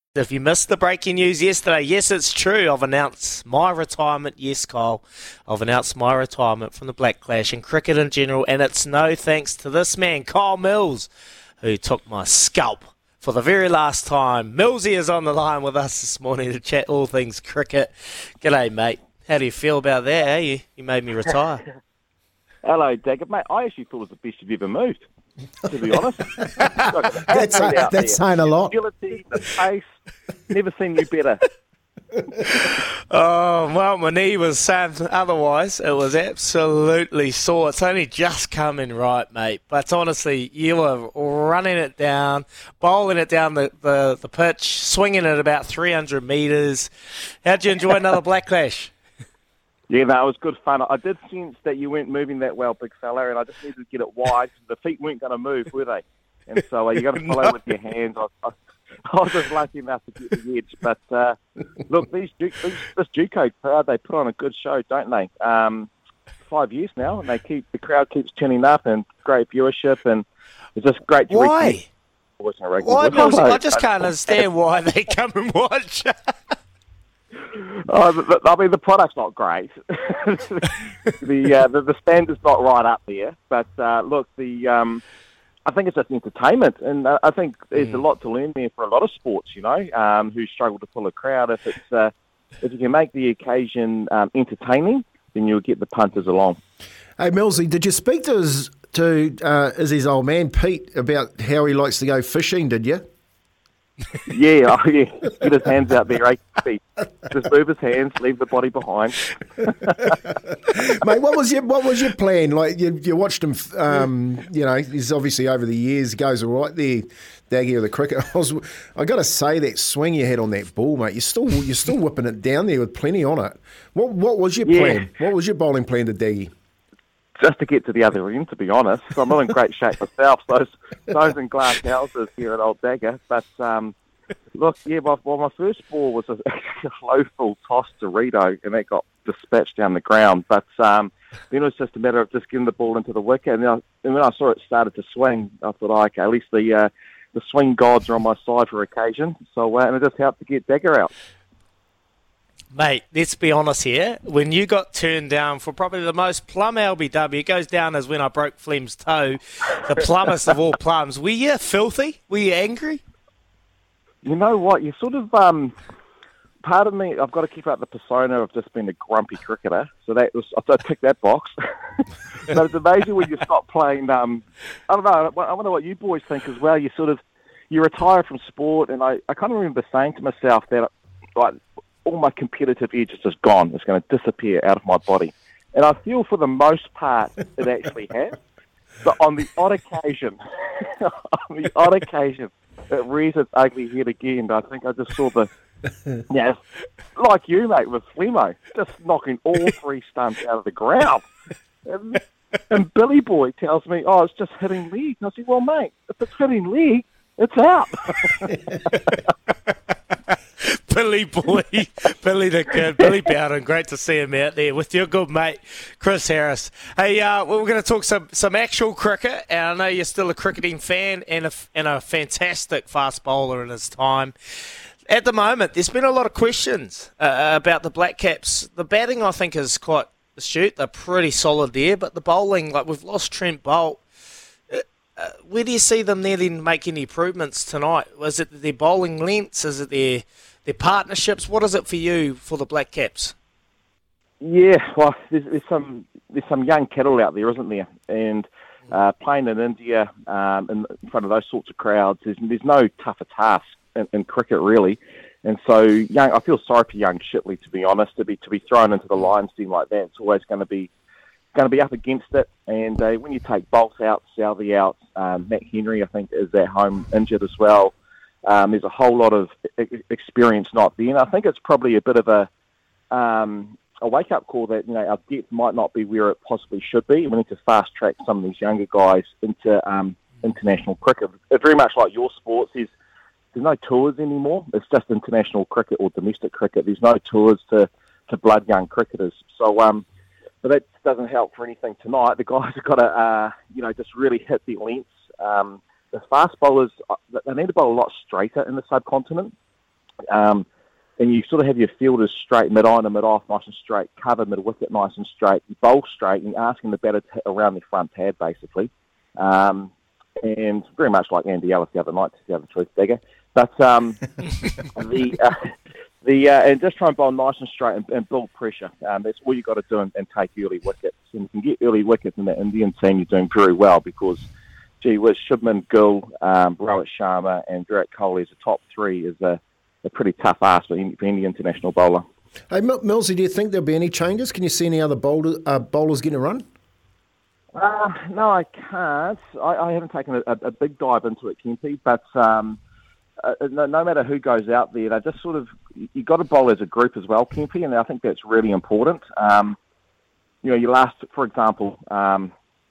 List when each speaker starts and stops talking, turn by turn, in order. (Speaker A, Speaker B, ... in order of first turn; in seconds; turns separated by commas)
Speaker A: 0.2-11.1, Speaker A: 11.6-21.7, Speaker B: 22.6-25.1, Speaker B: 25.6-29.9, Speaker C: 27.3-28.8, Speaker B: 30.5-31.4, Speaker A: 32.5-46.9, Speaker A: 47.4-48.9, Speaker B: 49.9-58.5, Speaker B: 59.1-65.9, Speaker B: 66.5-71.8, Speaker A: 71.3-71.9, Speaker B: 72.4-73.8, Speaker A: 72.8-76.3, Speaker B: 77.4-85.0, Speaker B: 85.7-96.6, Speaker C: 97.2-103.0, Speaker B: 104.3-110.1, Speaker C: 110.1-126.5, Speaker B: 124.7-125.1, Speaker B: 127.4-133.9, Speaker B: 134.5-151.1, Speaker A: 152.7-163.0, Speaker B: 164.2-165.8, Speaker B: 166.6-188.4, Speaker B: 189.0-195.5, Speaker B: 196.3-196.6, Speaker B: 197.2-201.3, Speaker B: 201.8-208.6, Speaker A: 210.3-224.3, Speaker A: 225.1-234.0, Speaker A: 234.7-243.3, Speaker B: 244.4-260.9, Speaker B: 261.5-267.9, Speaker B: 268.4-272.5, Speaker B: 273.1-282.9, Speaker B: 283.5-290.0, Speaker B: 290.6-299.5, Speaker B: 300.3-300.6, Speaker B: 301.2-314.3, Speaker B: 314.9-315.7, Speaker B: 316.2-324.5, Speaker B: 325.0-332.2, Speaker C: 332.7-336.6, Speaker B: 337.7-342.8, Speaker B: 343.4-349.8, Speaker B: 350.6-352.5